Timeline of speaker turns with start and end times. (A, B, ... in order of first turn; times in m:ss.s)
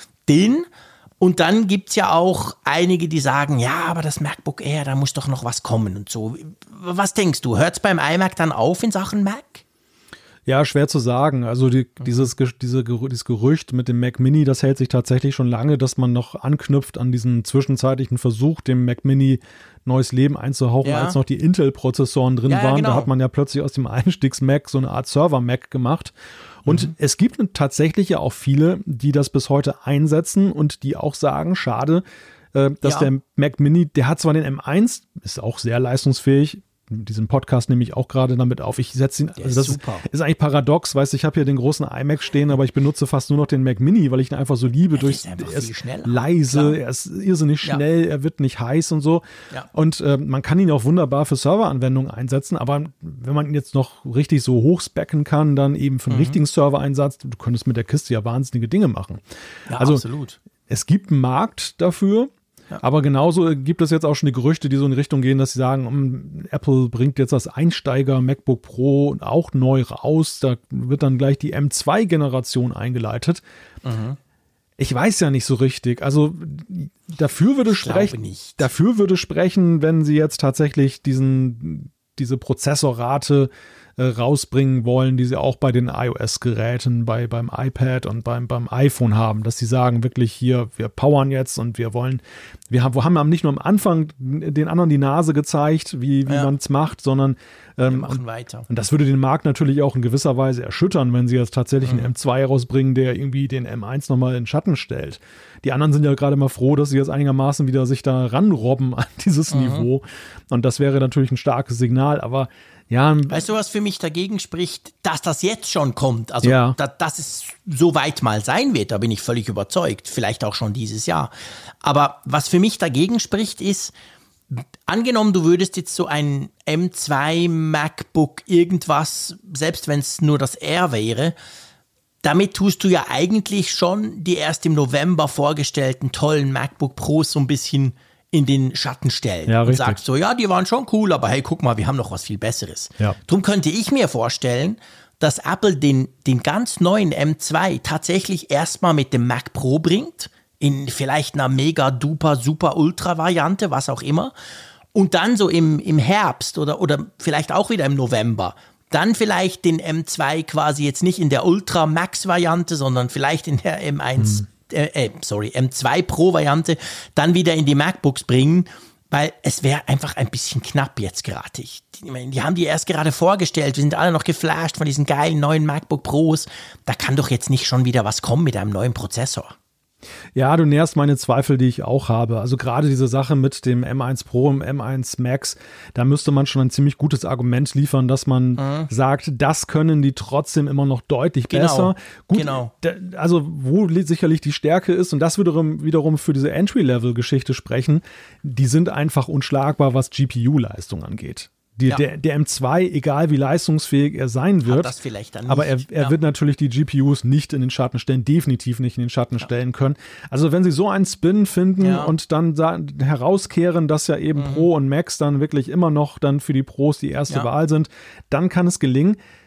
0:00.3-0:00.7 A
0:01.2-0:09.6 A
0:10.5-0:59.2 B
0:12.0-0:12.3 A
0:20.8-0:21.2 A
0:22.5-0:23.1 A
0:26.6-0:26.9 A
0:32.8-0:33.1 A
0:39.4-0:40.1 A
0:44.9-0:46.8 A
0:56.1-0:56.4 A
0:59.7-1:00.4 A
0:59.8-1:00.0 B
1:00.7-1:13.4 B
1:13.8-1:14.2 A
1:14.8-1:53.4 B
1:17.7-1:18.6 A
1:36.2-1:36.5 A
1:37.8-1:38.7 A
1:41.8-1:42.1 A
1:49.5-1:49.9 A
1:53.3-2:03.9 A
1:56.4-1:56.8 B
2:04.5-2:11.4 A
2:12.2-2:34.3 A
2:19.5-2:20.0 B
2:34.9-2:59.5 A
2:44.2-2:44.4 B
3:00.3-3:24.9 B
3:08.6-3:08.9 A
3:11.5-3:12.7 A
3:24.6-3:26.2 A
3:25.5-3:39.2 B
3:31.8-3:32.1 A
3:34.3-3:34.7 A